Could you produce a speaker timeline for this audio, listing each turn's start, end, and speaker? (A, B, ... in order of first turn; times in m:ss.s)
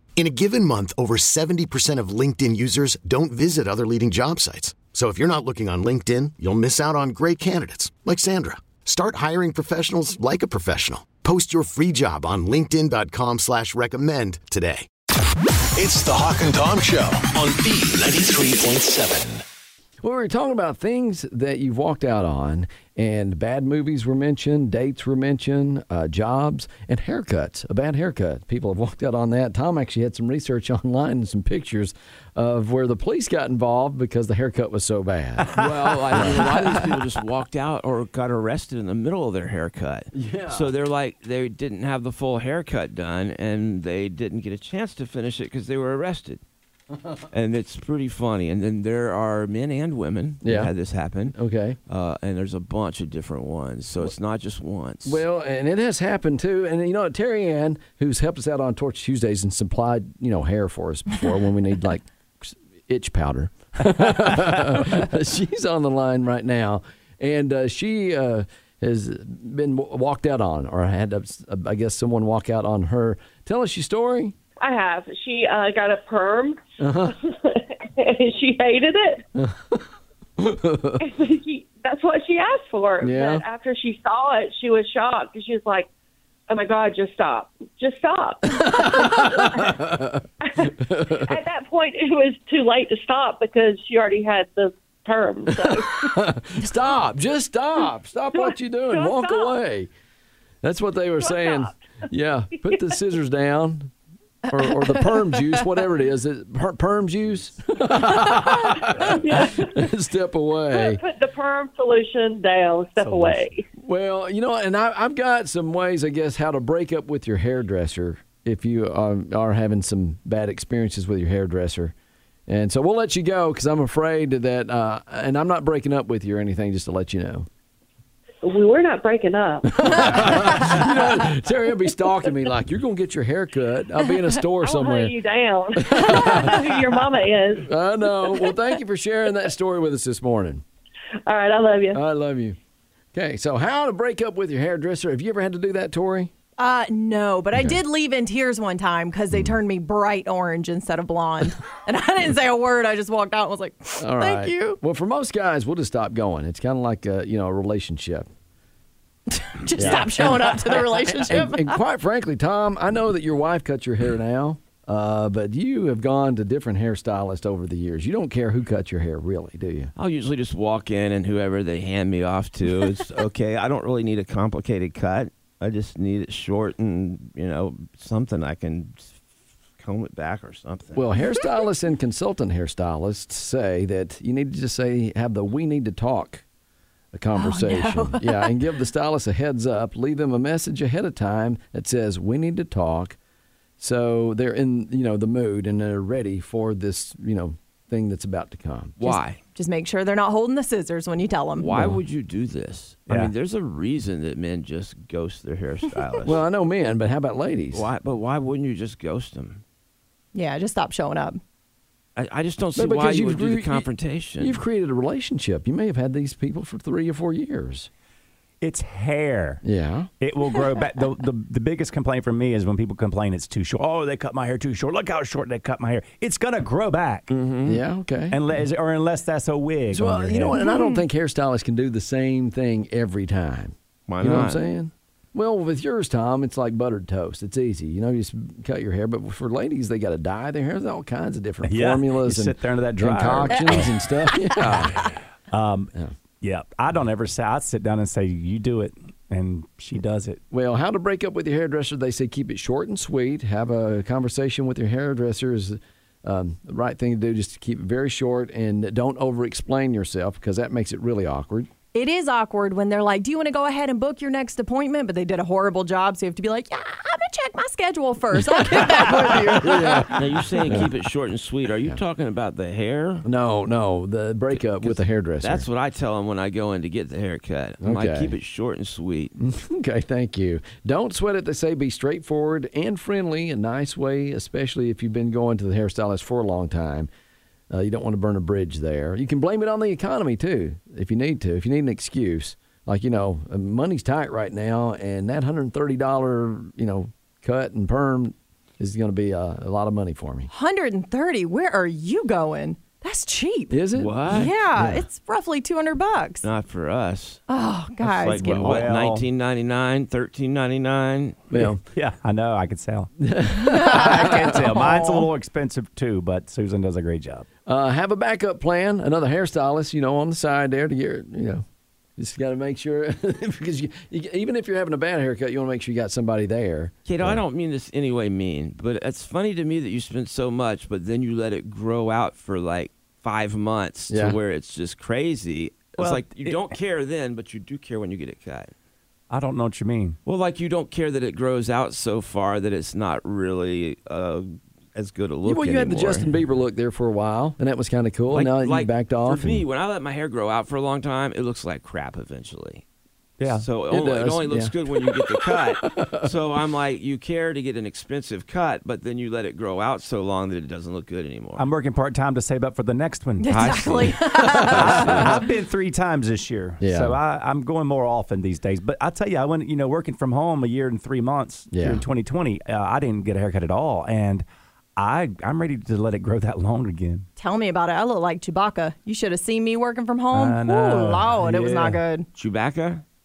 0:00.2-0:14.9 A
0:15.8-0:19.4 B
0:20.0-0:36.8 C
0:35.5-0:46.4 D
0:40.1-0:40.7 C
0:47.3-0:51.3 D
0:50.4-0:50.7 C
0:51.3-0:51.8 C
0:51.9-0:55.2 D
0:55.0-1:14.4 C
1:14.6-1:19.2 E
1:16.8-1:17.1 C
1:19.4-1:19.8 C
1:20.4-1:21.0 C
1:21.0-1:25.9 E
1:23.0-1:23.4 C
1:26.5-1:29.8 E
1:28.6-1:31.3 C
1:30.4-1:36.3 E
1:35.5-1:39.9 C
1:38.3-1:39.6 E
1:40.6-1:43.9 C
1:41.2-1:41.7 E
1:44.5-1:51.0 C
1:48.1-1:49.9 E
1:50.7-1:53.6 E
1:53.0-2:01.9 C
2:02.5-2:07.5 C
2:08.4-2:10.8 E
2:09.7-2:15.1 C
2:14.5-2:18.7 E
2:15.8-2:16.7 C
2:17.6-2:20.6 C
2:21.2-2:22.0 E
2:21.9-2:22.6 C
2:23.1-2:26.3 C
2:26.6-2:34.8 F
2:34.0-2:38.3 C
2:39.3-2:41.8 F
2:39.8-2:49.9 C
2:50.0-2:59.2 D
2:59.8-3:01.0 D
3:00.9-3:06.4 C
3:07.1-3:13.2 C
3:07.3-3:08.5 F
3:13.8-3:19.0 C
3:19.0-3:19.4 D
3:19.0-3:21.7 F
3:21.6-3:26.4 D
3:26.2-3:27.9 C
3:27.7-3:29.6 D
3:30.3-3:31.4 F
3:32.2-3:34.6 D
3:32.8-3:33.9 C
3:34.4-3:37.9 C
3:38.6-3:39.6 G
3:39.6-3:40.1 C
3:40.2-3:47.3 G
3:47.3-3:47.8 D
3:47.6-3:48.4 C
3:48.3-3:50.7 G
3:49.9-4:05.1 C
3:50.6-3:51.0 F
3:54.1-3:54.6 D
4:01.6-4:03.9 G
4:05.5-4:10.4 G
4:10.5-4:21.7 C
4:21.9-4:30.1 F
4:29.4-4:30.9 C
4:30.1-4:33.2 D
4:33.2-4:35.7 C
4:34.8-4:39.3 D
4:37.8-4:38.3 C
4:39.4-4:47.1 C
4:47.7-5:00.5 C
5:00.5-5:03.8 F
5:03.7-5:05.0 C
5:04.0-5:04.5 D
5:04.3-5:06.5 F
5:06.4-5:07.4 D
5:07.5-5:08.6 F
5:08.1-5:11.4 D
5:08.4-5:09.3 G
5:11.5-5:11.8 C
5:11.5-5:13.1 G
5:13.2-5:14.5 C
5:13.6-5:15.3 F
5:13.8-5:17.4 G
5:17.6-5:21.6 C
5:22.2-5:27.4 C
5:27.0-5:38.7 D
5:34.1-5:34.4 C
5:36.0-5:36.7 G
5:39.3-5:40.2 G
5:40.2-5:46.3 D
5:45.4-5:49.6 C
5:48.3-5:52.8 D
5:53.4-5:53.6 G
5:53.5-6:01.6 D
5:53.9-5:56.3 C
6:01.6-6:14.4 G
6:03.4-6:05.4 F
6:03.5-6:04.1 D
6:06.8-6:07.2 C
6:11.7-6:12.0 C
6:15.0-6:17.3 G
6:17.4-6:22.3 F
6:20.3-6:22.0 G
6:22.4-6:23.0 D